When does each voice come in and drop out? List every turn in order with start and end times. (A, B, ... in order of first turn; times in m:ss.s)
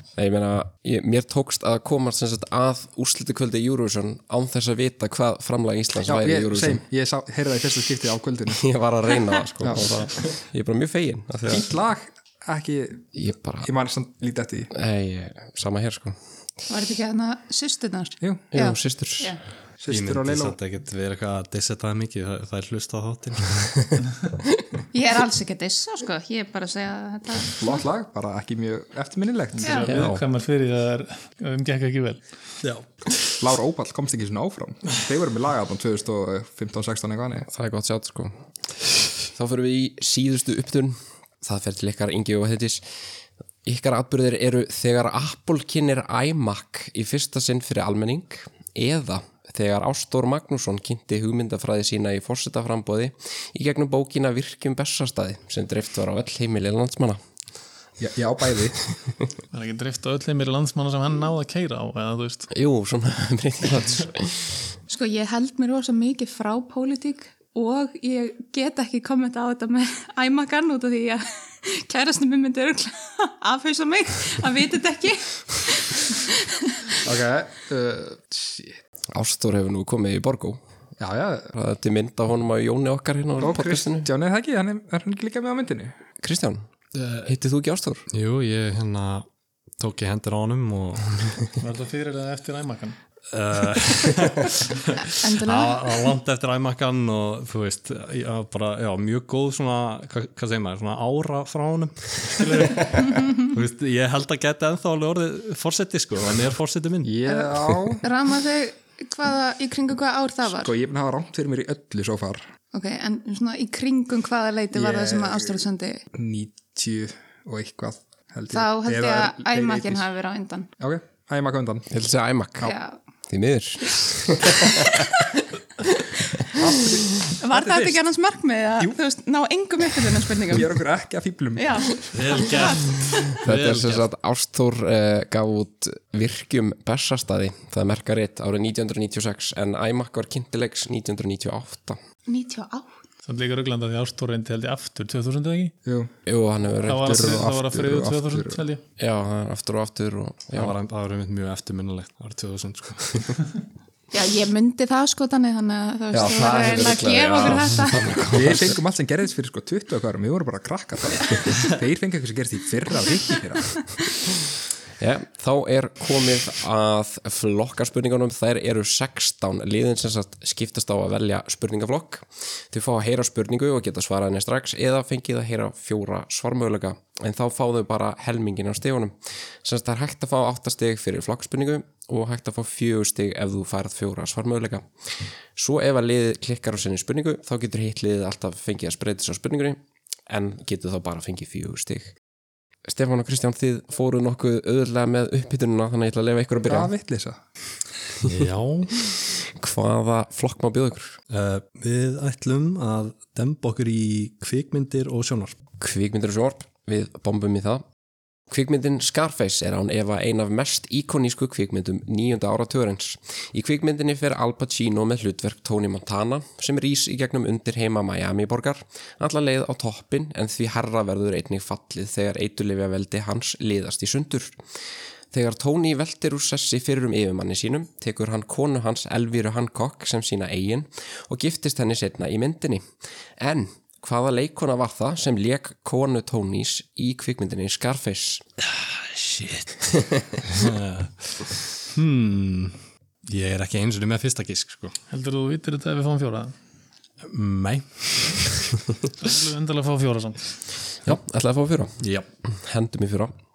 0:00.2-0:06.8 A
0:06.0-0:08.6 B
0:08.5-0:11.7 A
0:09.6-0:09.9 B
0:11.5-0:13.1 B
0:13.1-0:13.7 A
0:13.6-0:14.7 B
0:14.7-0:16.2 A
0:16.7-0:19.4 C
0:18.2-0:18.5 B
0:18.5-0:19.4 A
0:19.8-0:20.6 B
0:19.9-0:24.0 D
0:24.9-0:27.7 C
0:27.6-0:29.9 B
0:29.6-0:32.2 E
0:29.6-0:29.9 C
0:29.8-0:30.2 A
0:32.6-0:33.3 D
0:33.4-0:37.5 B
0:37.5-0:38.3 A
0:39.3-0:42.8 A
0:43.6-0:57.2 A
0:58.0-0:58.9 B
0:59.5-1:02.5 E
1:02.5-1:04.6 A
1:04.9-1:17.0 C
1:17.0-1:18.8 B
1:19.1-1:20.6 A
1:21.0-1:21.5 B
1:21.5-1:24.1 A
1:23.4-1:25.9 B
1:26.2-1:26.7 A
1:26.9-1:27.3 D
1:27.2-1:28.0 A
1:28.1-1:29.3 D
1:29.8-1:31.6 D
1:31.6-1:33.0 E
1:33.3-1:47.1 D
1:35.1-1:36.1 C
1:47.0-1:48.1 B
1:48.0-1:50.7 C
1:50.5-1:52.4 B
1:52.7-1:56.0 C
1:54.7-1:55.6 B
1:56.1-2:00.1 B
1:58.5-2:00.7 C
2:00.8-2:01.9 B
2:01.9-2:02.7 A
2:02.6-2:03.0 C
2:03.3-2:05.1 A
2:04.8-2:05.3 C
2:06.5-2:08.0 B
2:07.4-2:10.8 C
2:10.4-2:12.1 B
2:11.6-2:12.9 C
2:12.1-2:14.1 D
2:13.4-2:22.0 A
2:22.3-2:23.0 C
2:23.2-2:25.7 E
2:25.8-2:26.1 B
2:26.2-2:27.4 A
2:26.8-2:28.8 E
2:27.0-2:28.6 B
2:29.0-2:30.7 A
2:30.5-2:33.4 D
2:34.1-2:38.5 C
2:36.1-2:38.8 A
2:38.3-2:43.9 B
2:45.0-3:12.2 A
3:12.8-3:16.9 A
3:16.7-3:17.4 B
3:18.2-3:19.0 D
3:19.6-3:21.2 A
3:21.3-3:25.6 D
3:25.8-3:27.8 A
3:28.5-3:44.6 A
3:45.3-3:58.4 A
3:58.6-3:59.9 D
4:00.4-4:05.0 D
4:05.1-4:06.5 E
4:07.2-4:09.0 D
4:09.2-4:10.6 E
4:11.0-4:13.3 A
4:12.0-4:12.3 D